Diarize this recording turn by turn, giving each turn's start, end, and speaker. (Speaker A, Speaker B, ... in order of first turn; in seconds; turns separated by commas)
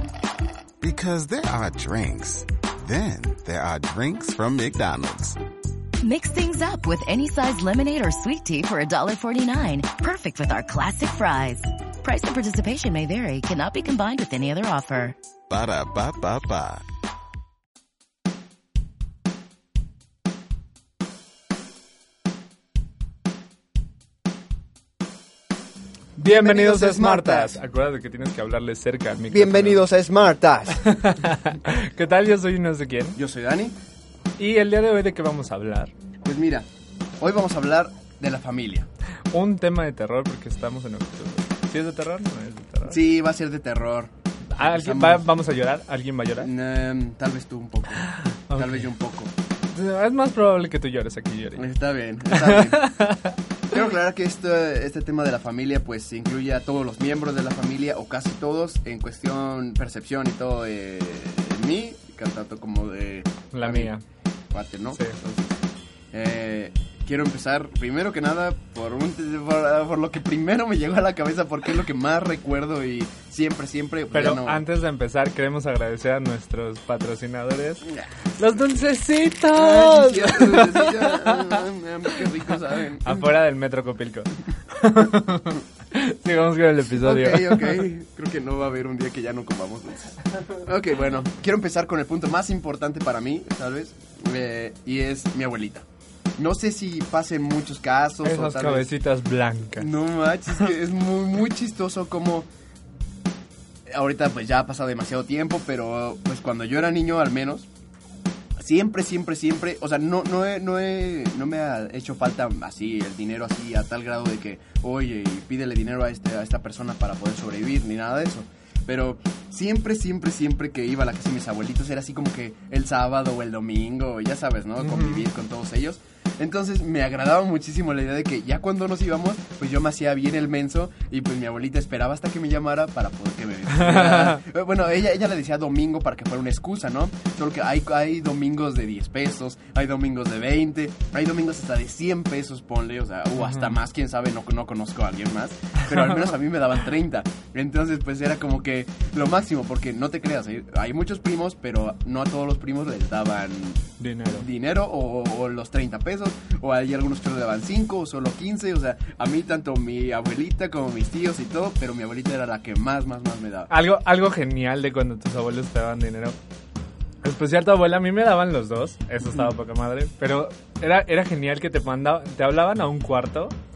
Speaker A: 0.8-5.4, Speaker B: 6.0-15.1, Speaker A: 15.5-16.8, Speaker C: 26.1-29.8, Speaker D: 26.2-27.6, Speaker D: 29.3-30.8, Speaker C: 30.8-33.2, Speaker D: 33.1-33.8, Speaker C: 34.4-35.9, Speaker D: 36.2-36.7, Speaker D: 37.2-38.9, Speaker C: 39.3-43.0, Speaker D: 42.8-45.2, Speaker C: 44.5-46.5, Speaker D: 46.4-49.3, Speaker C: 48.0-48.9, Speaker C: 49.7-51.6, Speaker D: 51.5-52.9, Speaker C: 52.3-53.3, Speaker D: 53.7-63.9, Speaker C: 63.5-64.0, Speaker D: 64.5-74.6, Speaker C: 74.1-77.8, Speaker C: 78.4-81.6, Speaker D: 79.5-83.3, Speaker C: 83.0-87.8, Speaker D: 86.9-95.8, Speaker D: 96.4-98.9, Speaker C: 98.2-99.9, Speaker D: 99.8-102.5, Speaker D: 103.9-107.7, Speaker D: 108.6-163.7, Speaker C: 124.8-125.2, Speaker C: 133.7-134.4, Speaker C: 143.4-143.8, Speaker C: 154.0-154.4, Speaker C: 163.7-166.3, Speaker C: 167.2-173.5